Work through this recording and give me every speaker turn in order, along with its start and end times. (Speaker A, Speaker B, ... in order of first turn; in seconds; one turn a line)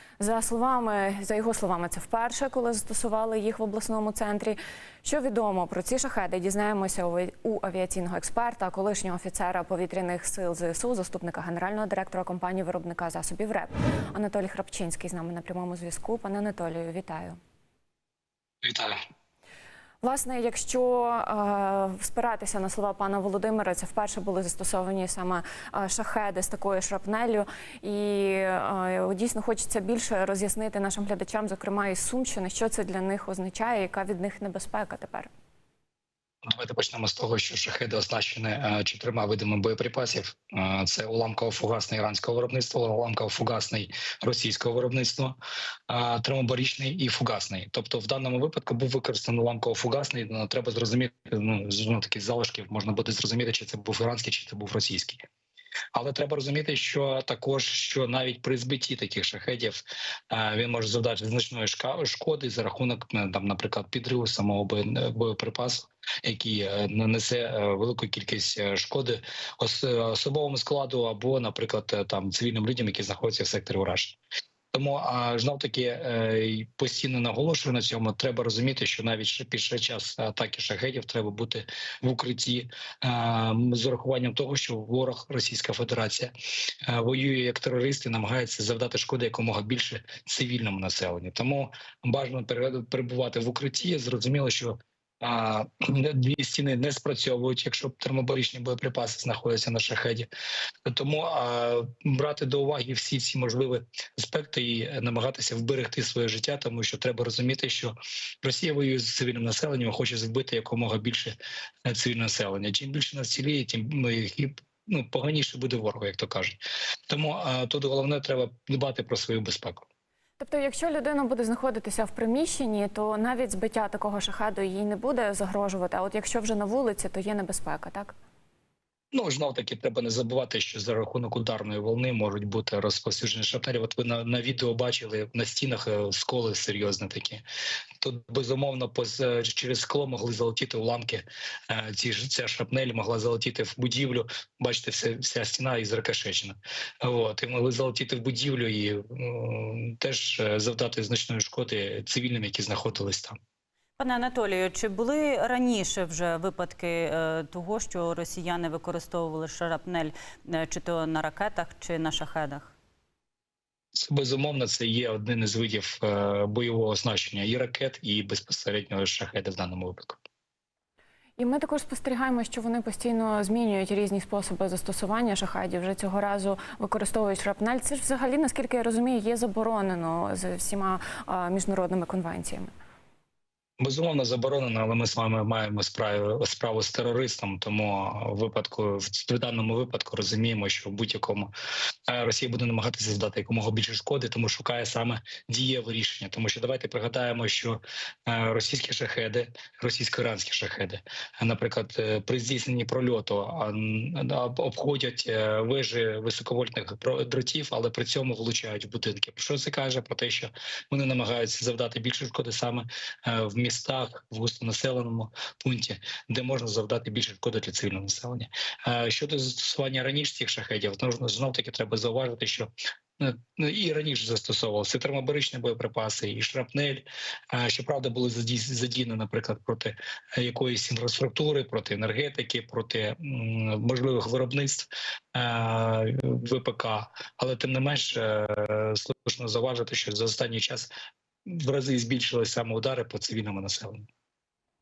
Speaker A: 0.2-17.4
Speaker B: 18.6-19.0
Speaker A: 20.0-35.3
Speaker B: 36.5-45.4
Speaker B: 45.9-55.2
Speaker B: 55.9-74.2
Speaker B: 74.7-86.3
Speaker B: 86.9-100.3
Speaker B: 100.9-119.9
Speaker A: 120.4-128.1
Speaker B: 129.1-137.4
Speaker B: 138.0-153.4
Speaker C: 154.0-162.7
Speaker B: 163.9-170.2
Speaker A: 171.4-182.7
Speaker B: 183.8-191.5
Speaker B: 192.1-240.9
Speaker B: 241.5-244.1